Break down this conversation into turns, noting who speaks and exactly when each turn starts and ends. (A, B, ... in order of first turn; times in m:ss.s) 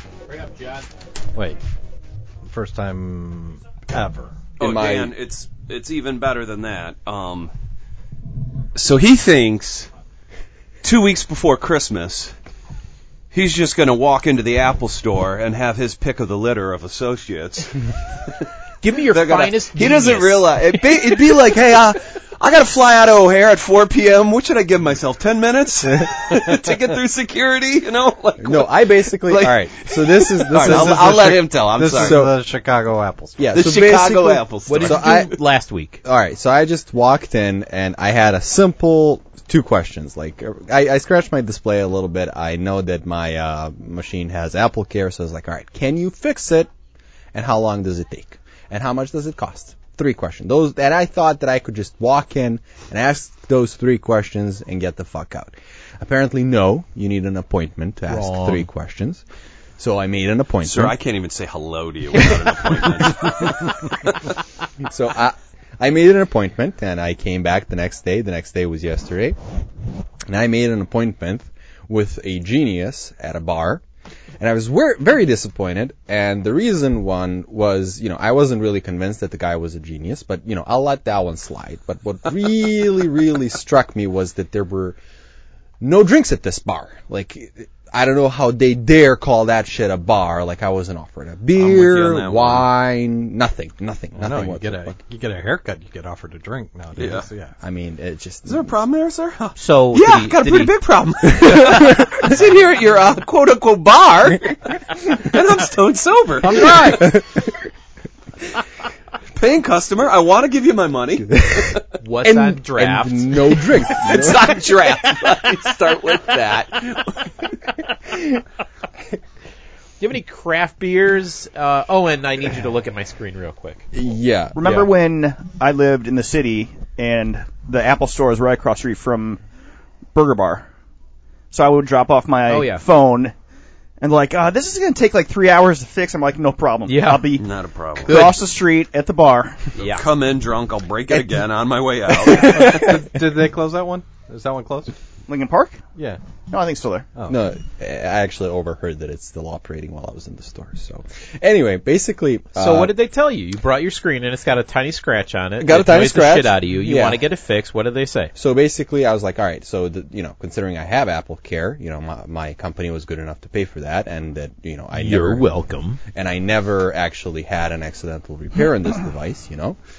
0:00.3-0:00.8 A
0:02.4-0:04.5 B
0:04.6-0:05.1 C
0:04.6-0:07.5 D
0:08.7-0:09.9 D
0:10.8-0:12.3 D
0:13.3-0:18.3 D
0:18.8-0:20.7 A
0:19.1-0:32.2 D
0:28.4-0:32.3 C
0:30.5-0:33.6 B
0:33.4-0:35.3 C
0:33.5-0:35.3 D
0:34.6-0:36.0 A
0:36.0-0:46.7 C
0:47.3-0:59.2 C
0:58.1-0:58.7 A
0:59.8-1:00.9 C
1:00.6-1:04.3 D
1:04.8-1:09.4 C
1:10.3-1:13.8 C
1:14.4-1:25.0 C
1:25.8-1:35.0 C
1:31.6-1:32.7 D
1:34.1-1:37.5 B
1:37.0-1:37.3 D
1:37.6-1:38.7 C
1:38.4-1:47.1 D
1:39.6-1:40.7 A
1:46.4-1:47.0 A
1:46.5-1:47.4 C
1:49.3-1:51.8 D
1:51.4-1:54.5 C
1:52.0-1:53.4 A
1:53.9-1:57.3 D
1:58.1-1:58.4 C
2:00.0-2:03.8 A
2:03.9-2:04.7 C
2:04.5-2:09.4 E
2:04.6-2:04.9 A
2:10.1-2:10.6 E
2:11.5-2:13.3 E
2:12.5-2:12.8 A
2:14.0-2:17.5 E
2:16.9-2:17.4 A
2:17.4-2:18.2 D
2:18.0-2:19.7 E
2:18.0-2:18.4 A
2:19.8-2:23.0 D
2:19.8-2:20.0 A
2:22.3-2:24.9 B
2:25.3-2:25.8 E
2:26.5-2:27.1 E
2:27.3-2:32.9 C
2:32.5-2:38.3 A
2:35.6-2:37.2 C
2:38.3-2:45.5 C
2:44.9-2:46.0 A
2:46.1-2:49.8 C